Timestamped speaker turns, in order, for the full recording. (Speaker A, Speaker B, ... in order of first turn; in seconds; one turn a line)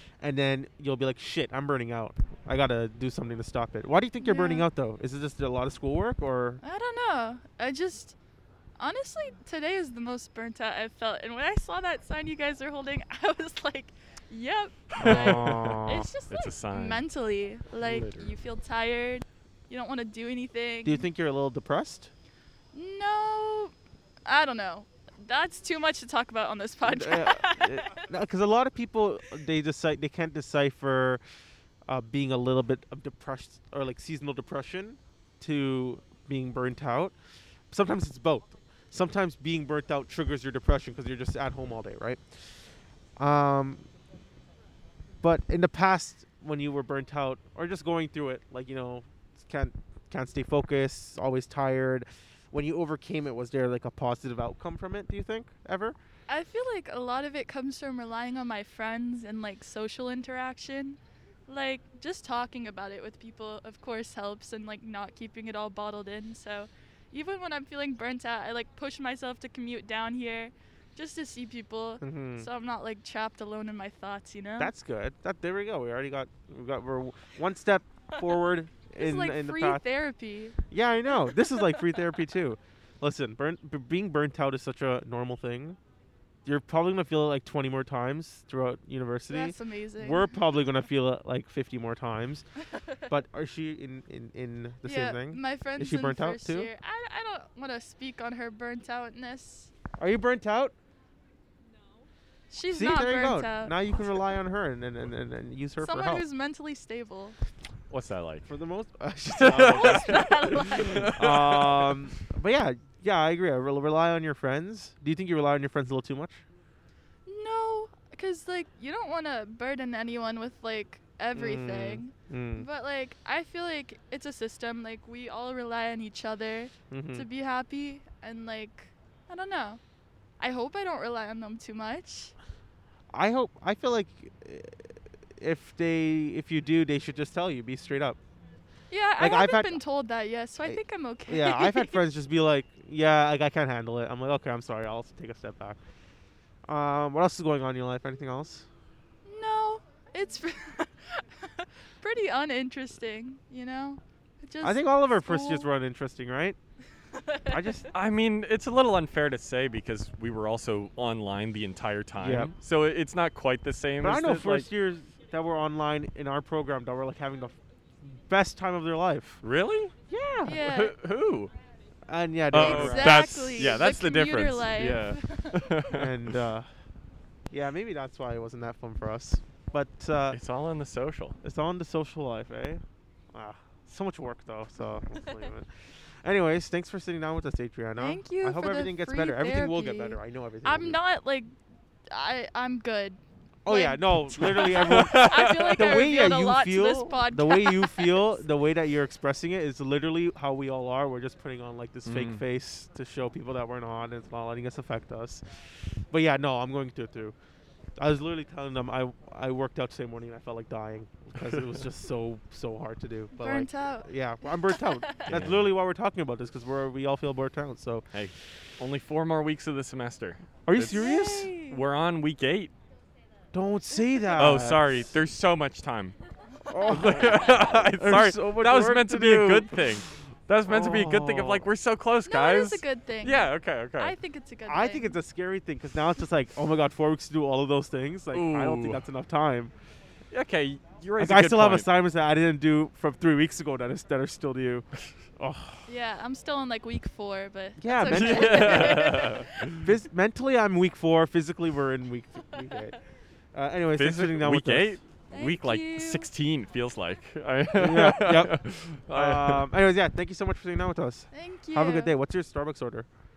Speaker A: 0.2-6.6
Speaker B: 4.2-4.7
Speaker B: 6.6-8.2
Speaker B: 8.8-21.1
Speaker C: 14.9-17.0
Speaker A: 15.0-16.1
Speaker C: 17.8-18.4
Speaker A: 20.8-22.1
Speaker B: 22.7-23.7
Speaker B: 24.2-28.0
Speaker A: 26.8-31.2
Speaker A: 31.9-37.1
Speaker A: 37.7-42.2
Speaker A: 43.2-43.9
Speaker A: 45.2-56.0
Speaker B: 56.3-74.7
Speaker A: 72.0-72.5
Speaker A: 74.6-79.8
Speaker B: 79.0-80.6
Speaker A: 80.7-85.8
Speaker A: 86.4-92.5
Speaker B: 89.3-90.4
Speaker A: 93.1-96.7
Speaker B: 94.8-99.7
Speaker A: 100.0-100.7
Speaker B: 102.5-103.8
Speaker A: 102.7-106.2
Speaker B: 105.8-107.4
Speaker C: 107.9-108.5
Speaker A: 108.5-116.4
Speaker C: 109.3-111.9
Speaker B: 109.6-111.1
Speaker B: 117.2-129.8
Speaker A: 121.3-122.7
Speaker A: 126.9-127.2
Speaker B: 130.4-132.3
Speaker A: 133.1-134.9
Speaker A: 135.4-138.2
Speaker B: 138.9-142.0
Speaker A: 139.2-139.8
Speaker A: 140.6-145.8
Speaker A: 146.7-148.7
Speaker B: 149.2-155.7
Speaker A: 154.6-156.6
Speaker A: 157.4-157.9
Speaker C: 157.9-164.7
Speaker A: 162.2-162.5
Speaker A: 164.0-169.4
Speaker C: 169.4-171.5
Speaker A: 170.1-170.6
Speaker B: 170.4-170.9
Speaker A: 172.1-173.8
Speaker C: 172.5-176.2
Speaker B: 172.6-175.7
Speaker A: 175.9-176.7
Speaker A: 177.5-180.4
Speaker C: 180.3-181.4
Speaker A: 181.4-185.7
Speaker A: 186.2-191.0
Speaker B: 188.0-191.5
Speaker B: 192.1-198.3
Speaker A: 193.6-207.3
Speaker C: 194.4-196.0
Speaker C: 202.1-202.4
Speaker A: 208.0-218.1
Speaker C: 211.4-211.7
Speaker B: 213.3-214.1
Speaker B: 214.6-215.3
Speaker C: 215.2-215.7
Speaker C: 218.1-222.7
Speaker A: 220.7-221.5
Speaker B: 220.9-221.8
Speaker A: 223.5-225.1
Speaker C: 224.3-226.1
Speaker A: 226.7-230.0
Speaker C: 226.9-234.2
Speaker B: 226.9-227.4
Speaker A: 230.7-231.7
Speaker B: 232.2-235.2
Speaker A: 234.7-239.7
Speaker C: 238.3-239.0
Speaker C: 240.3-241.9
Speaker A: 241.2-244.9
Speaker A: 245.4-245.8
Speaker B: 245.9-249.6
Speaker A: 247.8-253.0
Speaker C: 248.0-249.8
Speaker A: 253.5-255.0
Speaker C: 253.9-259.6
Speaker B: 255.3-256.3
Speaker A: 257.7-263.1
Speaker B: 261.3-262.1